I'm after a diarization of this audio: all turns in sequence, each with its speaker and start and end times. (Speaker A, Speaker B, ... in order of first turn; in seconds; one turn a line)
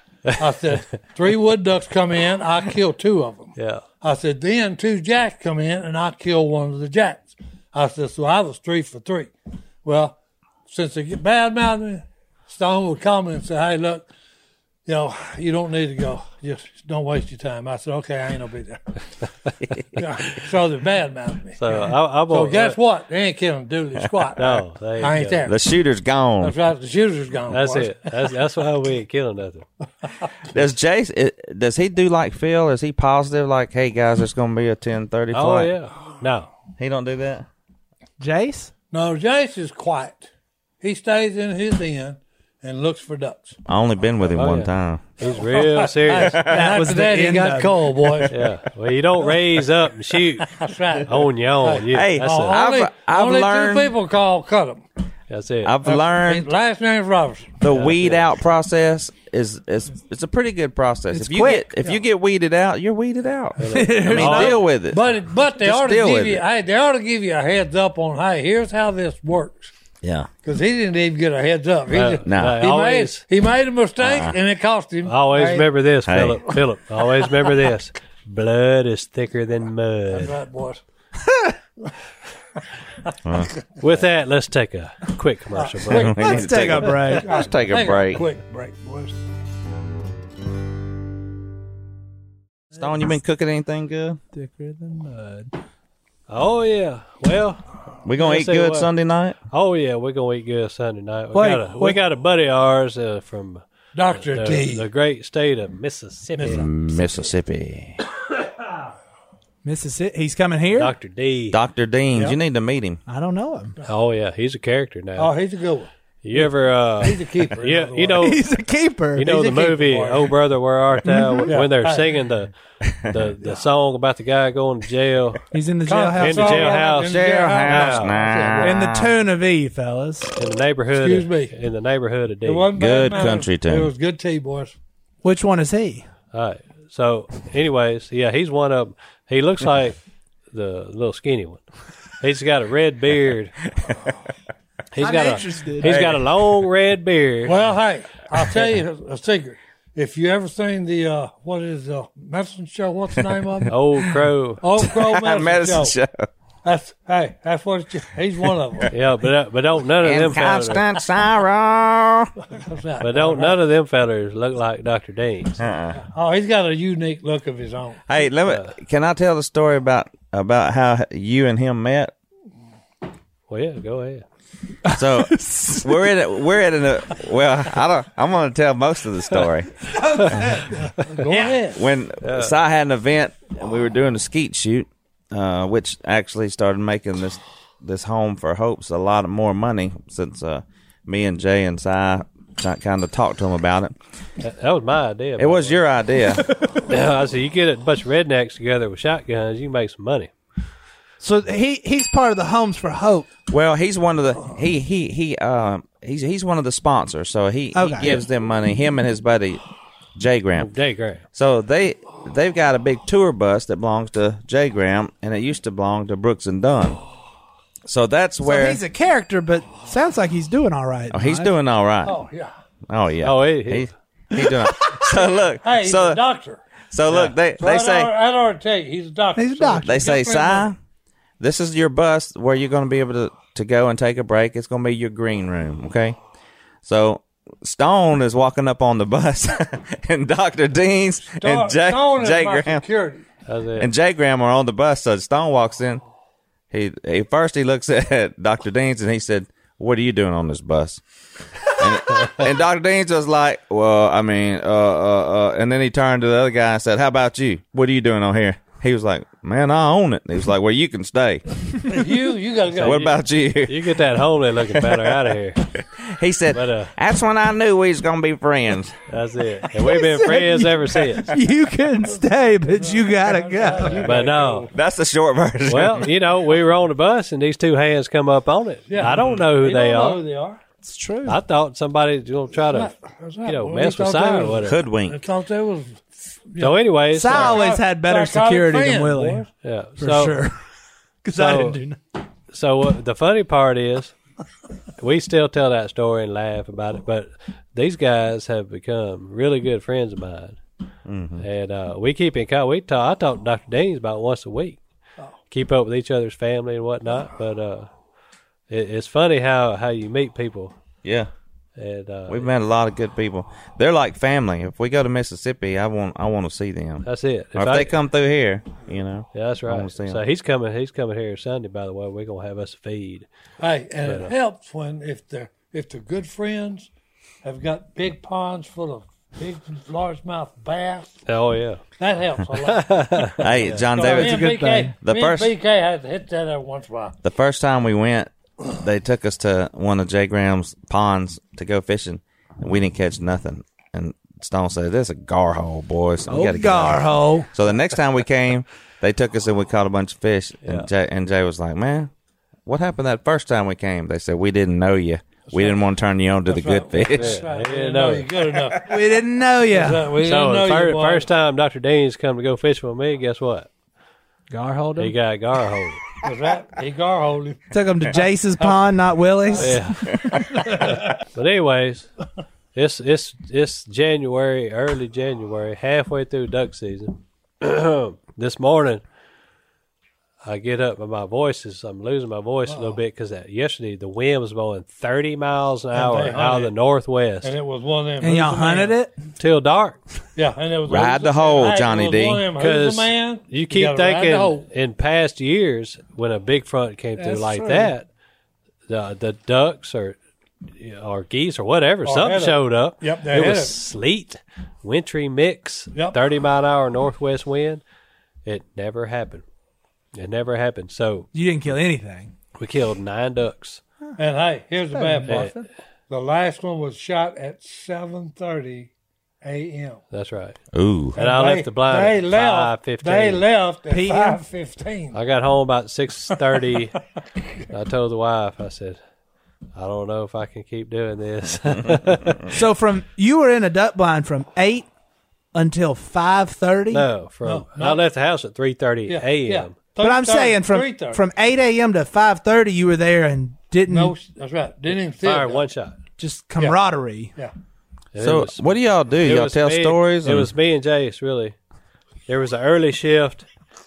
Speaker A: 0.3-9.3
Speaker B: 3.6-3.8
Speaker A: 9.8-14.1
Speaker A: 14.9-19.0
Speaker A: 19.9-25.6
Speaker B: 21.6-22.8
Speaker B: 24.4-25.4
Speaker C: 25.5-26.5
Speaker A: 26.4-28.2
Speaker B: 27.5-29.6
Speaker C: 30.5-35.7
Speaker B: 35.3-36.5
Speaker C: 36.8-37.5
Speaker D: 38.2-38.7
Speaker A: 38.9-40.3
Speaker A: 40.8-43.6
Speaker C: 43.7-45.0
Speaker B: 44.2-46.4
Speaker A: 45.3-48.4
Speaker C: 46.2-46.7
Speaker D: 46.5-48.1
Speaker B: 48.3-50.5
Speaker A: 50.4-54.8
Speaker B: 51.1-52.6
Speaker C: 51.9-53.9
Speaker B: 55.3-55.8
Speaker C: 55.6-56.5
Speaker A: 55.8-57.6
Speaker C: 57.6-65.0
Speaker B: 57.7-58.3
Speaker D: 61.1-61.7
Speaker B: 63.6-64.6
Speaker D: 63.7-64.6
Speaker A: 64.9-69.7
Speaker C: 65.6-66.4
Speaker C: 70.0-70.3
Speaker A: 70.4-75.7
Speaker B: 71.9-73.2
Speaker C: 72.3-72.6
Speaker C: 74.0-74.3
Speaker B: 75.1-80.3
Speaker C: 76.1-76.5
Speaker A: 80.1-80.8
Speaker C: 83.2-83.5
Speaker B: 83.8-86.3
Speaker A: 85.5-89.2
Speaker C: 85.9-88.2
Speaker D: 86.2-87.3
Speaker C: 92.8-94.2
Speaker D: 94.3-95.5
Speaker B: 96.3-97.7
Speaker C: 98.0-99.4
Speaker B: 98.2-98.9
Speaker B: 99.5-103.6
Speaker D: 101.3-102.0
Speaker A: 103.9-104.9
Speaker B: 104.2-106.7
Speaker A: 106.4-106.7
Speaker C: 106.4-108.0
Speaker D: 109.6-110.9
Speaker B: 110.8-111.6
Speaker C: 111.5-113.0
Speaker D: 113.1-113.7
Speaker B: 113.8-115.3
Speaker A: 115.2-115.9
Speaker B: 116.2-118.4
Speaker A: 117.0-118.3
Speaker D: 118.2-119.5
Speaker B: 119.2-122.5
Speaker A: 119.2-120.3
Speaker D: 121.1-121.5
Speaker A: 121.5-122.1
Speaker B: 123.0-125.4
Speaker D: 125.5-126.7
Speaker A: 125.9-128.8
Speaker B: 126.2-128.2
Speaker C: 127.1-129.1
Speaker D: 128.6-130.3
Speaker B: 130.4-132.7
Speaker A: 130.9-131.5
Speaker A: 132.4-134.7
Speaker C: 132.8-133.9
Speaker D: 135.2-136.0
Speaker B: 136.3-140.0
Speaker B: 140.5-141.7
Speaker B: 142.2-143.5
Speaker B: 144.9-147.5
Speaker D: 145.0-146.0
Speaker C: 145.8-146.2
Speaker A: 147.4-153.7
Speaker B: 153.7-154.6
Speaker A: 154.6-156.0
Speaker C: 154.8-156.3
Speaker A: 156.6-158.9
Speaker B: 158.9-160.8
Speaker C: 160.0-162.3
Speaker A: 162.5-163.6
Speaker B: 163.0-165.6
Speaker C: 165.6-166.0
Speaker A: 165.9-168.0
Speaker C: 168.1-172.1
Speaker B: 168.5-168.7
Speaker B: 173.5-174.3
Speaker D: 174.9-176.1
Speaker C: 174.9-180.4
Speaker D: 180.2-180.7
Speaker A: 181.0-181.8
Speaker C: 181.7-193.9
Speaker B: 182.2-182.6
Speaker B: 194.4-195.8
Speaker C: 195.4-196.5
Speaker B: 196.8-200.3
Speaker D: 201.2-203.3
Speaker C: 203.5-209.6
Speaker D: 207.8-208.2
Speaker C: 210.2-210.7
Speaker B: 210.6-211.2
Speaker C: 211.3-217.0
Speaker C: 217.9-218.8
Speaker D: 218.4-221.5
Speaker C: 221.1-222.2
Speaker A: 222.1-222.5
Speaker C: 222.9-226.2
Speaker B: 223.2-223.9
Speaker A: 225.6-226.6
Speaker C: 226.9-228.1
Speaker B: 227.1-227.4
Speaker A: 227.6-230.7
Speaker D: 229.4-230.2
Speaker C: 229.8-230.8
Speaker C: 231.4-236.2
Speaker C: 236.8-242.8
Speaker A: 241.3-243.2
Speaker B: 243.5-243.9
Speaker C: 243.8-246.0
Speaker C: 246.7-251.0
Speaker C: 251.6-262.0
Speaker A: 261.9-263.1
Speaker B: 262.7-265.6
Speaker C: 262.8-263.8
Speaker C: 265.8-269.0
Speaker B: 266.5-266.9
Speaker B: 269.1-271.3
Speaker D: 269.9-274.1
Speaker A: 272.8-274.7
Speaker B: 274.0-274.7
Speaker C: 274.7-276.1
Speaker B: 275.7-280.2
Speaker A: 278.9-280.6
Speaker D: 280.8-281.4
Speaker B: 281.3-282.9
Speaker A: 282.6-289.5
Speaker B: 283.4-284.8
Speaker C: 284.6-285.2
Speaker B: 286.6-287.6
Speaker D: 287.1-289.4
Speaker B: 289.6-290.4
Speaker D: 290.0-290.6
Speaker D: 291.2-292.0
Speaker B: 291.4-291.8
Speaker B: 292.5-294.1
Speaker B: 295.0-300.6
Speaker C: 301.1-301.4
Speaker B: 301.4-304.8
Speaker B: 305.5-307.9
Speaker B: 308.7-310.8
Speaker C: 311.0-311.3
Speaker B: 311.8-312.5
Speaker C: 312.3-320.2
Speaker B: 317.0-317.9
Speaker B: 319.3-323.3
Speaker A: 323.6-326.9
Speaker B: 324.1-324.3
Speaker A: 327.4-331.2
Speaker B: 331.3-331.8
Speaker A: 332.0-333.3
Speaker B: 332.6-333.9
Speaker C: 333.4-335.5
Speaker A: 333.9-337.2
Speaker D: 334.0-334.9
Speaker C: 337.2-352.1
Speaker D: 346.3-347.5
Speaker B: 350.6-350.9
Speaker C: 352.7-357.4
Speaker A: 355.5-355.8
Speaker A: 356.5-358.9
Speaker B: 357.1-358.3
Speaker D: 358.9-360.1
Speaker A: 359.7-361.3
Speaker B: 360.2-363.7
Speaker D: 364.5-365.1
Speaker B: 365.0-366.1
Speaker A: 366.2-367.6
Speaker D: 367.7-370.4
Speaker A: 369.5-369.8
Speaker B: 369.6-370.2
Speaker A: 370.3-371.0
Speaker B: 370.8-372.1
Speaker B: 372.7-379.0
Speaker B: 380.4-387.5
Speaker A: 382.7-383.0
Speaker A: 385.9-386.7
Speaker A: 387.4-388.9
Speaker D: 388.2-389.1
Speaker B: 389.4-390.0
Speaker A: 390.4-394.6
Speaker C: 390.9-392.4
Speaker B: 392.6-398.1
Speaker A: 397.2-397.9
Speaker B: 398.9-407.8
Speaker A: 402.1-403.8
Speaker B: 408.4-409.4
Speaker B: 410.1-411.3
Speaker D: 411.3-412.3
Speaker B: 412.6-413.8
Speaker A: 414.2-415.6
Speaker D: 414.9-415.7
Speaker B: 415.3-415.5
Speaker A: 416.1-418.9
Speaker A: 419.4-420.0
Speaker B: 420.1-420.6
Speaker C: 420.7-421.2
Speaker A: 421.1-425.2
Speaker B: 421.2-423.4
Speaker D: 423.9-424.4
Speaker B: 425.1-427.0
Speaker B: 427.7-429.0
Speaker B: 429.8-432.5
Speaker D: 432.5-434.9
Speaker D: 435.5-437.1
Speaker B: 436.9-439.7
Speaker A: 437.4-438.0
Speaker A: 439.1-441.2
Speaker D: 440.0-444.1
Speaker A: 443.9-445.6
Speaker B: 445.2-446.0
Speaker D: 446.2-447.3
Speaker B: 448.1-451.6
Speaker C: 448.2-450.5
Speaker B: 452.3-453.5